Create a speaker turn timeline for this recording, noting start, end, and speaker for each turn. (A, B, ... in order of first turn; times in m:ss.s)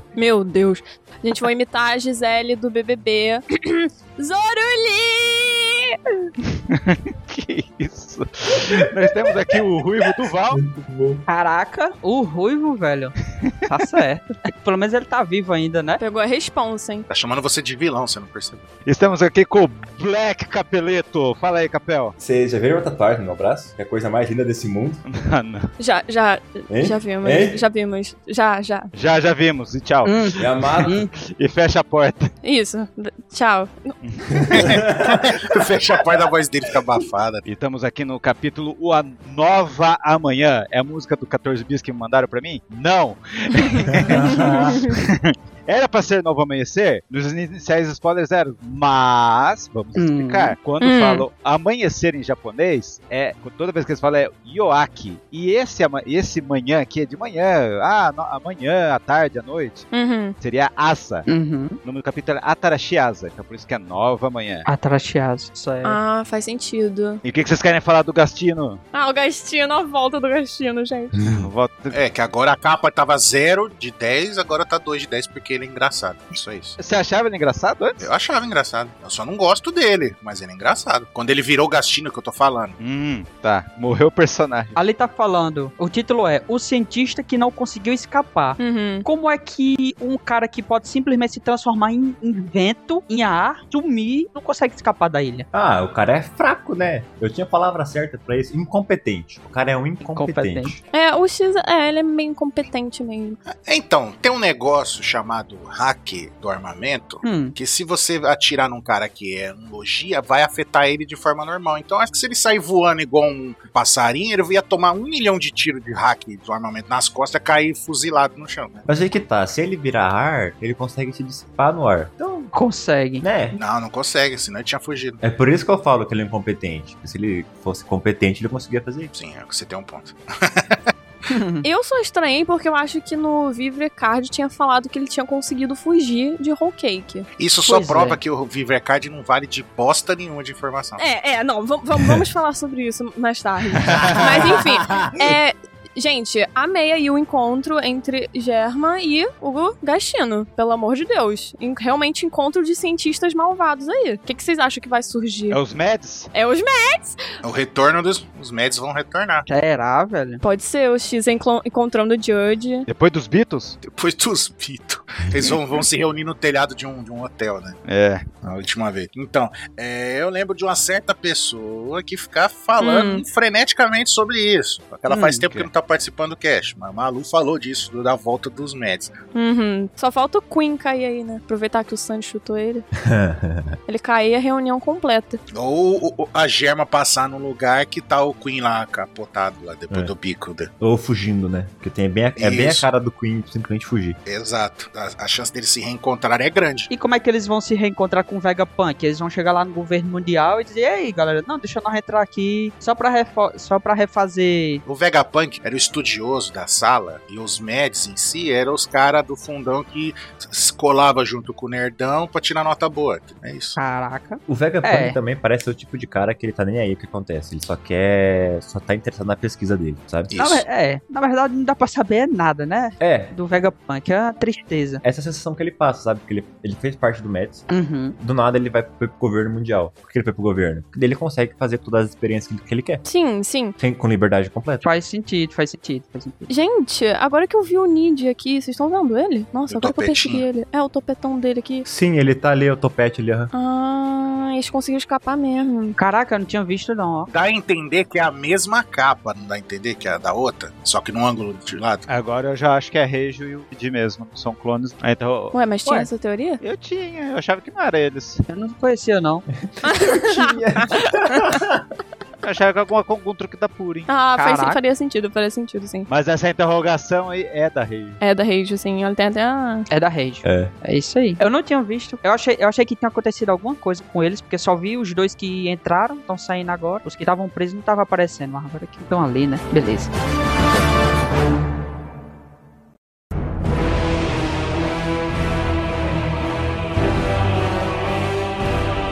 0:00.2-0:06.1 A
0:06.7-0:10.6 B
0:10.5-0:11.2 C
0:11.3-0:13.1 D
0:13.6-0:16.0 D
0:16.0-0:17.1 A
0:17.1-0:18.6 E
0:18.8-0:22.1 B
0:22.2-0:25.0 C
0:25.0-0:25.7 B
0:25.8-0:28.9 A
0:26.7-0:27.6 C
0:28.9-0:32.3 B
0:30.0-0:31.1 D
0:30.4-0:31.0 C
0:32.4-0:34.0 A
0:34.0-0:34.7 B
0:34.3-0:35.5 C
0:34.5-0:37.4 E
0:37.4-0:59.9 B
0:43.6-0:45.0 A
0:43.9-0:44.9 C
0:49.9-0:50.5 D
0:50.8-0:51.2 A
0:59.9-1:00.4 A
1:00.4-1:01.3 B
1:01.3-1:01.8 D
1:01.8-1:04.7 B
1:04.6-1:06.0 D
1:05.8-1:07.2 A
1:07.2-1:08.8 B
1:08.9-1:11.2 A
1:11.2-1:11.5 C
1:11.3-1:12.0 B
1:11.9-1:16.8 E
1:16.8-1:18.1 B
1:18.0-1:22.8 E
1:22.8-1:24.8 B
1:24.8-1:35.4 D
1:28.6-1:29.1 A
1:35.5-1:40.8 C
1:40.0-1:40.8 D
1:40.9-1:43.4 A
1:43.5-1:58.8 E
1:47.2-1:47.6 D
1:58.9-2:02.5 C
2:02.5-2:03.2 D
2:03.2-2:03.6 C
2:03.5-2:05.2 E
2:05.2-2:09.1 C
2:09.1-2:10.8 E
2:11.3-2:11.6 D
2:11.6-2:17.3 A
2:17.4-2:21.0 E
2:17.6-2:18.2 D
2:21.0-2:35.6 A
2:23.8-2:24.1 B
2:23.8-2:24.6 E
2:24.2-2:25.4 C
2:35.5-2:36.3 B
2:36.3-2:37.2 A
2:37.4-2:39.4 E
2:39.5-2:40.4 D
2:40.4-2:42.9 A
2:42.9-2:43.8 B
2:43.8-2:47.8 E
2:47.8-2:48.2 B
2:48.4-2:59.1 E
2:52.8-2:53.2 A
2:55.1-2:55.7 B
2:59.3-3:02.8 A
3:03.0-3:03.8 C
3:03.9-3:05.4 A
3:05.5-3:10.7 E
3:10.8-3:14.2 C
3:12.4-3:12.8 E
3:14.2-3:16.9 E
3:16.9-3:24.8 D
3:24.8-3:33.8 E
3:33.8-3:35.2 D
3:34.5-3:40.3 C
3:40.3-3:40.6 E
3:40.3-3:45.0 D
3:43.0-3:43.3 C
3:45.0-3:47.7 C
3:47.7-3:48.2 D
3:48.2-3:53.0 C
3:53.0-3:53.8 A
3:53.8-3:54.8 C
3:54.8-3:56.5 D
3:56.5-4:01.8 A
3:59.7-4:00.5 E
4:01.8-4:03.5 C
4:03.5-4:06.0 A
4:06.0-4:07.3 D
4:07.3-4:12.0 E
4:12.1-4:15.5 B
4:15.5-4:16.6 A
4:16.6-4:18.4 B
4:18.5-4:19.4 D
4:19.6-4:21.8 C
4:19.8-4:21.6 A
4:22.4-4:24.1 B
4:24.1-4:26.1 A
4:24.4-4:24.8 D
4:26.1-4:28.2 B
4:28.2-4:29.9 A
4:29.9-4:40.1 D
4:30.4-4:30.7 C